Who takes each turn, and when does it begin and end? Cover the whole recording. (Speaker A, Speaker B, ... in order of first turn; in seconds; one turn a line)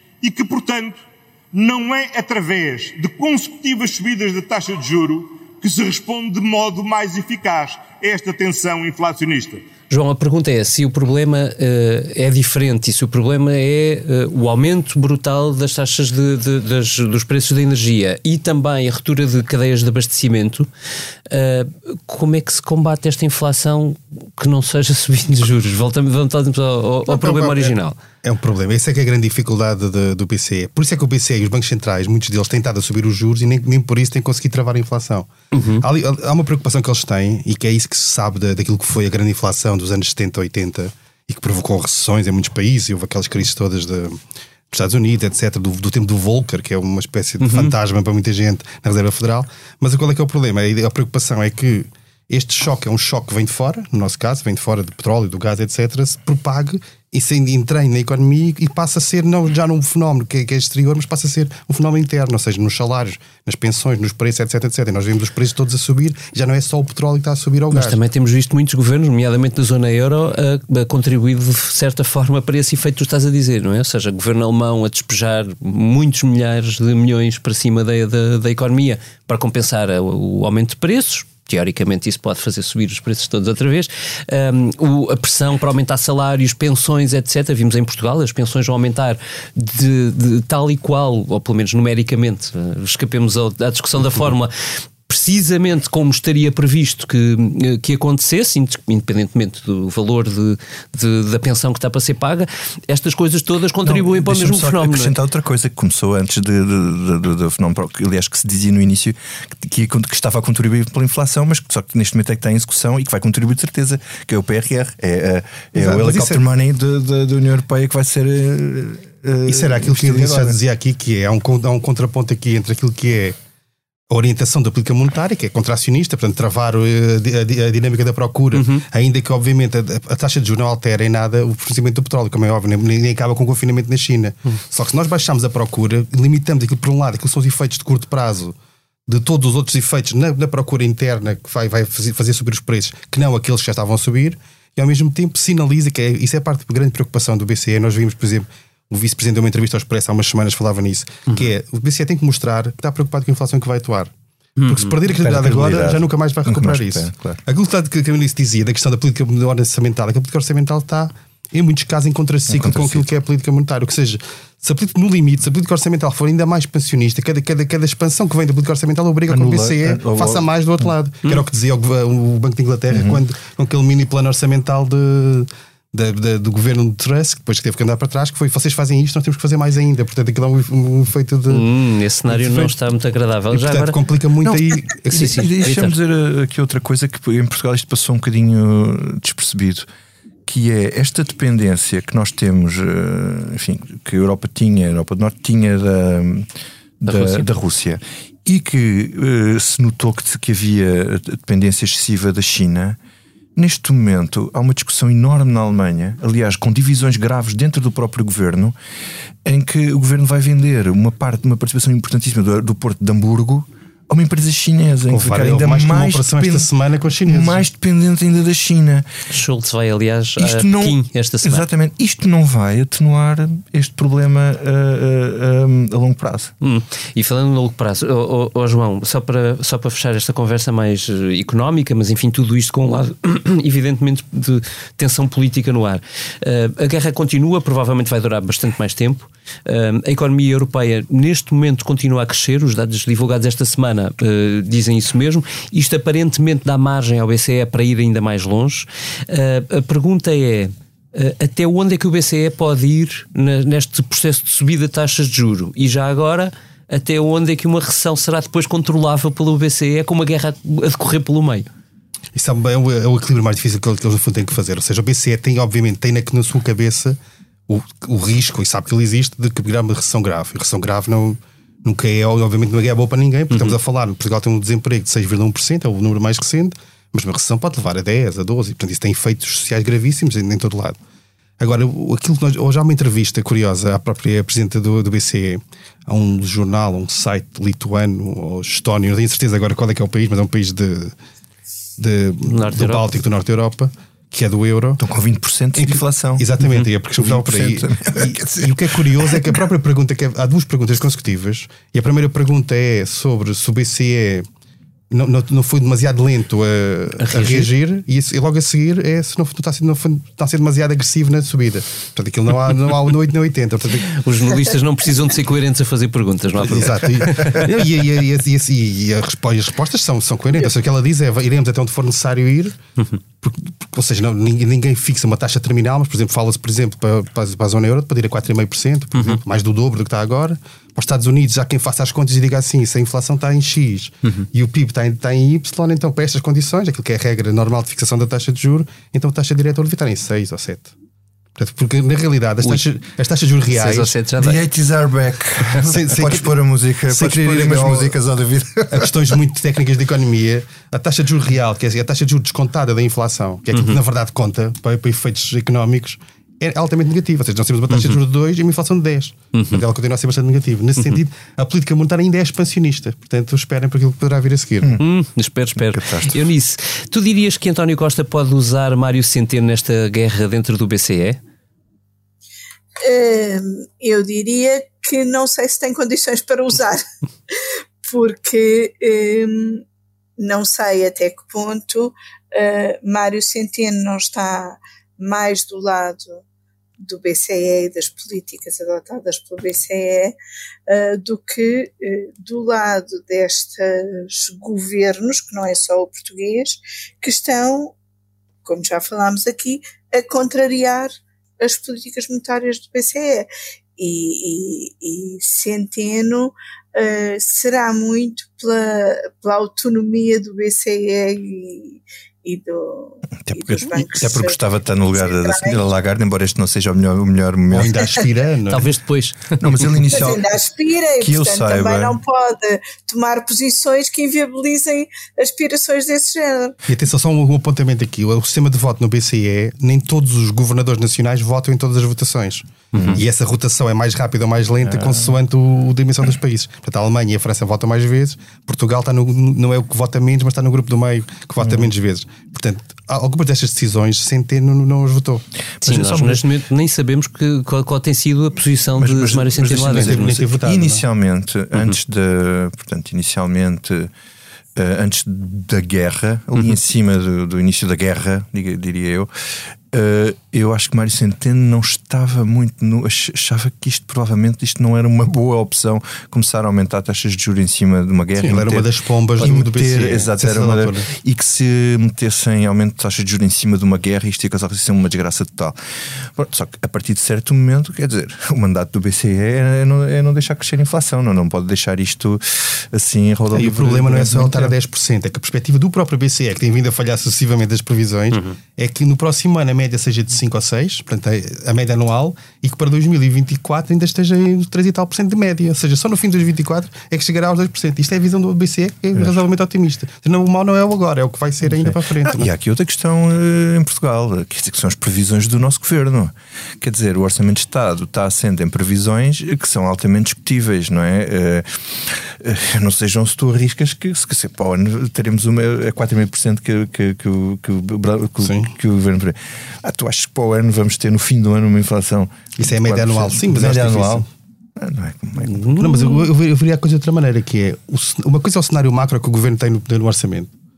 Speaker A: 0.2-9.6
Speaker B: 9.9-20.7
Speaker B: 21.3-28.0
Speaker C: 27.1-68.0
Speaker B: 35.5-35.9
Speaker B: 47.4-47.7
Speaker B: 67.7-94.5
Speaker B: 95.1-105.1
Speaker D: 103.8-120.6
Speaker C: 115.7-116.4
Speaker C: 119.5-123.4
Speaker C: 124.1-154.1
Speaker B: 128.5-128.8
Speaker B: 154.6-154.9
Speaker C: 154.7-181.7
Speaker D: 155.1-157.4
Speaker D: 162.5-163.1
Speaker D: 169.3-170.5
Speaker D: 172.9-173.2
Speaker B: 181.5-184.0
Speaker C: 182.3-182.7
Speaker C: 183.5-185.5
Speaker D: 184.4-189.8
Speaker B: 185.1-185.9
Speaker D: 190.4-196.5
Speaker D: 197.0-203.0
Speaker B: 197.1-197.5
Speaker D: 203.6-208.8
Speaker D: 209.4-216.7
Speaker C: 215.1-217.7
Speaker D: 217.2-219.1
Speaker B: 219.3-221.7
Speaker D: 220.4-226.5
Speaker B: 226.6-261.7
Speaker C: 262.3-281.0
Speaker C: 281.6-291.1
Speaker C: 292.0-295.0
Speaker B: 292.4-293.2
Speaker D: 295.0-296.5
Speaker C: 295.7-304.4
Speaker D: 297.2-299.5
Speaker C: 305.1-314.1
Speaker B: 307.2-307.7
Speaker B: 314.0-317.7
Speaker C: 316.6-322.8
Speaker C: 323.4-340.9
Speaker C: 341.6-344.1
Speaker B: 343.7-344.6
Speaker D: 344.4-349.2
Speaker C: 345.7-348.1
Speaker C: 348.9-365.0
Speaker B: 357.9-358.2
Speaker B: 359.5-359.8
Speaker B: 365.0-371.4
Speaker D: 365.7-366.4
Speaker E: 373.0-377.0
Speaker E: 378.1-379.8
Speaker E: 380.4-386.4
Speaker E: 387.0-390.3
Speaker E: 390.9-397.9
Speaker E: 398.6-414.6
Speaker D: 413.4-418.2
Speaker E: 415.1-415.8
Speaker C: 417.7-418.9
Speaker B: 418.7-420.0
Speaker D: 419.6-420.4
Speaker E: 420.1-426.8
Speaker D: 421.2-422.2
Speaker C: 426.9-445.4
Speaker B: 432.9-433.2
Speaker D: 432.9-433.2
Speaker D: 434.8-435.3
Speaker B: 445.8-450.5
Speaker D: 445.8-446.4
Speaker D: 449.0-454.1
Speaker C: 449.6-451.0
Speaker D: 454.8-459.3
Speaker D: 459.9-468.9
Speaker C: 468.4-471.1
Speaker D: 469.4-475.8
Speaker D: 476.4-484.7
Speaker C: 483.5-502.5
Speaker B: 488.3-488.6
Speaker D: 501.8-525.6
Speaker C: 518.4-518.7
Speaker C: 522.6-524.3
Speaker B: 525.4-526.2
Speaker C: 525.8-530.5